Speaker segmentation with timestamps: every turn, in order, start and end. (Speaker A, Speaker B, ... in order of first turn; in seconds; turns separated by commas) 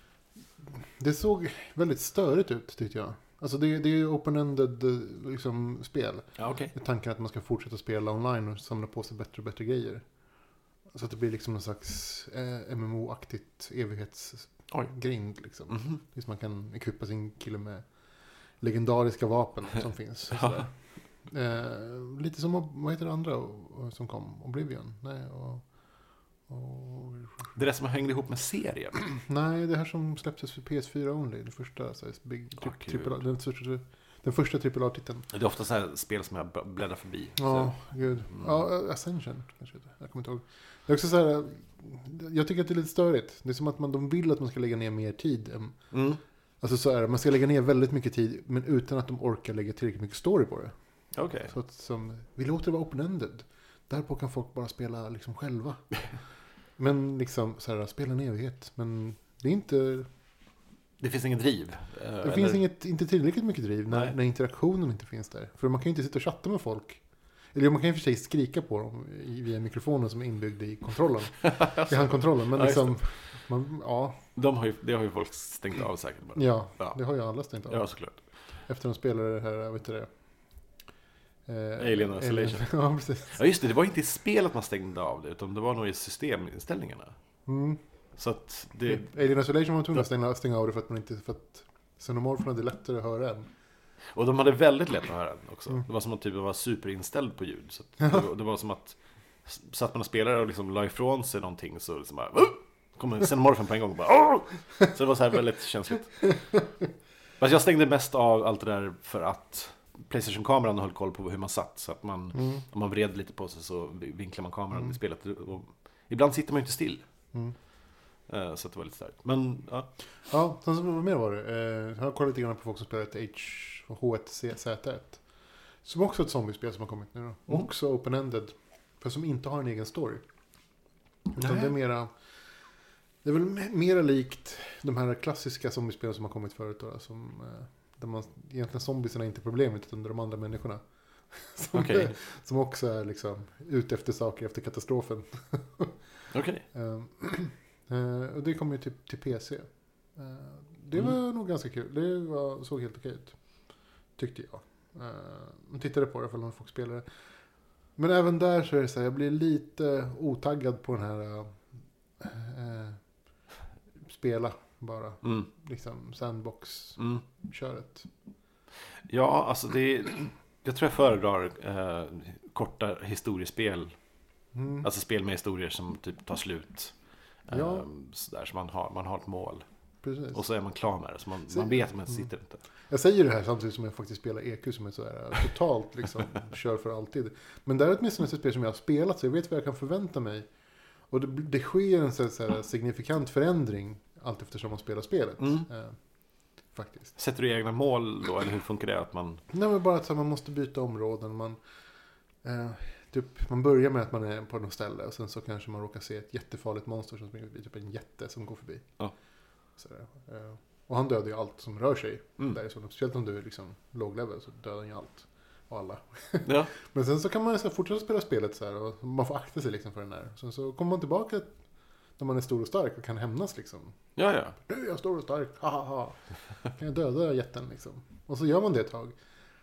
Speaker A: 0.6-10.0, Speaker B: 6.4-6.7, Speaker A: 10.9-17.9, Speaker B: 15.7-16.0, Speaker A: 18.6-25.6, Speaker B: 20.3-20.7, Speaker A: 26.5-27.5, Speaker B: 27.5-29.0, Speaker A: 29.1-35.3, Speaker B: 32.6-33.2, Speaker B: 35.3-37.7, Speaker A: 37.4-45.8, Speaker B: 45.9-46.2, Speaker A: 46.6-50.7, Speaker B: 51.1-51.5, Speaker A: 51.5-55.8, Speaker A: 56.8-60.1, Speaker B: 61.0-62.6, Speaker A: 62.2-67.0, Speaker A: 67.5-74.2, Speaker B: 71.4-73.2, Speaker B: 74.3-77.0, Speaker A: 76.3-77.9, Speaker B: 77.7-78.2, Speaker A: 78.7-80.1, Speaker A: 81.5-83.4, Speaker B: 81.8-82.7, Speaker B: 83.3-87.1, Speaker A: 87.5-87.8, Speaker B: 88.2-89.1, Speaker A: 88.9-93.5, Speaker B: 94.1-106.4, Speaker B: 107.4-117.0, Speaker A: 112.3-112.6, Speaker B: 118.3-119.9, Speaker A: 120.3-125.2, Speaker A: 125.8-130.2, Speaker A: 131.3-132.1, Speaker B: 131.4-131.7, Speaker A: 133.2-146.0, Speaker B: 141.7-142.1, Speaker B: 146.3-146.6, Speaker A: 146.7-153.5, Speaker A: 154.2-157.1, Speaker A: 157.9-161.6, Speaker A: 162.2-163.0, Speaker A: 164.0-168.1, Speaker B: 165.2-165.5, Speaker B: 169.1-173.9, Speaker A: 174.5-174.9, Speaker B: 174.8-176.9, Speaker B: 177.5-179.6, Speaker A: 177.5-177.8, Speaker A: 180.0-180.4, Speaker B: 180.3-182.6, Speaker A: 181.5-182.3, Speaker A: 182.9-190.5, Speaker A: 191.1-196.0, Speaker B: 195.4-195.7, Speaker A: 196.7-197.1, Speaker B: 197.2-199.4, Speaker A: 199.5-201.6, Speaker A: 202.4-208.9, Speaker A: 209.8-221.6, Speaker B: 216.4-216.7, Speaker A: 222.2-223.9, Speaker B: 224.2-224.6, Speaker A: 224.6-226.2, Speaker A: 226.7-229.2